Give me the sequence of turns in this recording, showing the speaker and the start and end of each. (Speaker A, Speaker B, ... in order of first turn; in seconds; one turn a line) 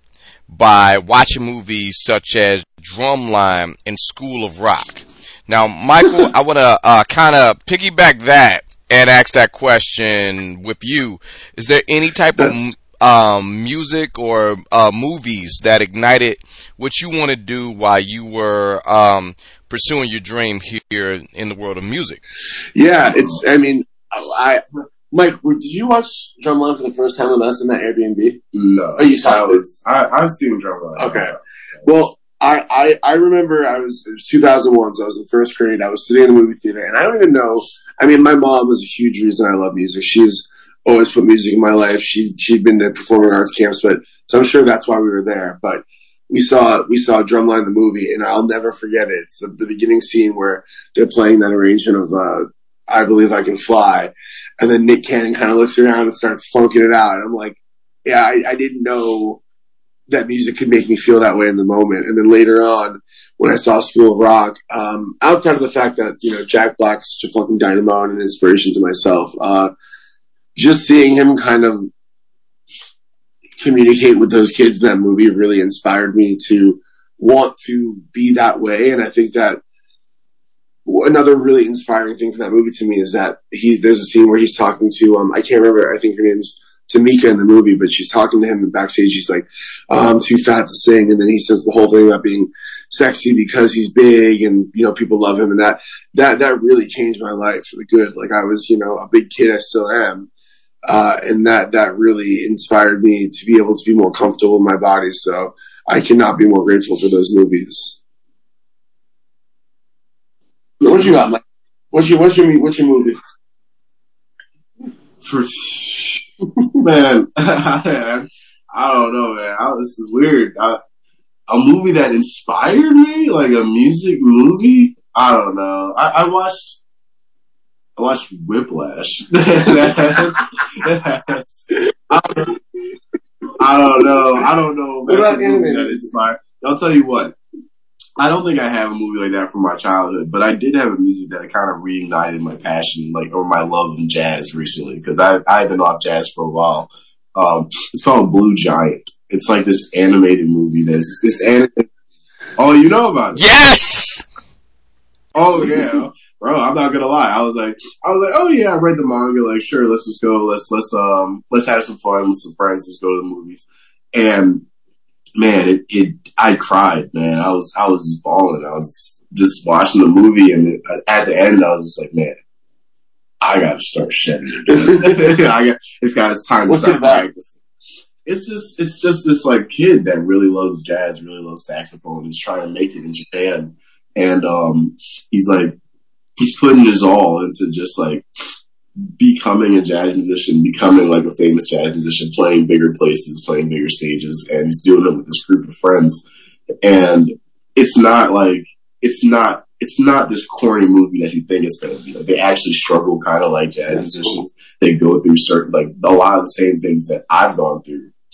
Speaker A: 0.5-22.2
Speaker B: 22.7-28.4
Speaker C: 28.5-31.4
Speaker B: 29.0-29.6
Speaker B: 30.9-31.3
Speaker B: 31.8-59.4
Speaker B: 60.1-69.7
Speaker B: 70.5-71.9
Speaker B: 73.6-79.6
Speaker B: 80.8-100.3
Speaker B: 100.8-108.0
Speaker B: 110.8-111.4
Speaker B: 111.9-113.2
Speaker C: 115.2-116.2
Speaker C: 116.8-120.8
Speaker C: 121.5-126.8
Speaker C: 128.0-132.5
Speaker C: 133.6-137.4
Speaker B: 135.1-136.1
Speaker C: 138.2-151.9
Speaker C: 152.6-153.4
Speaker A: 153.3-154.2
Speaker C: 155.3-164.6
Speaker C: 165.4-172.4
Speaker C: 173.4-177.6
Speaker B: 174.7-175.2
Speaker B: 176.7-177.2
Speaker C: 178.2-185.8
Speaker C: 186.4-188.2
Speaker C: 189.2-196.2
Speaker C: 196.8-208.1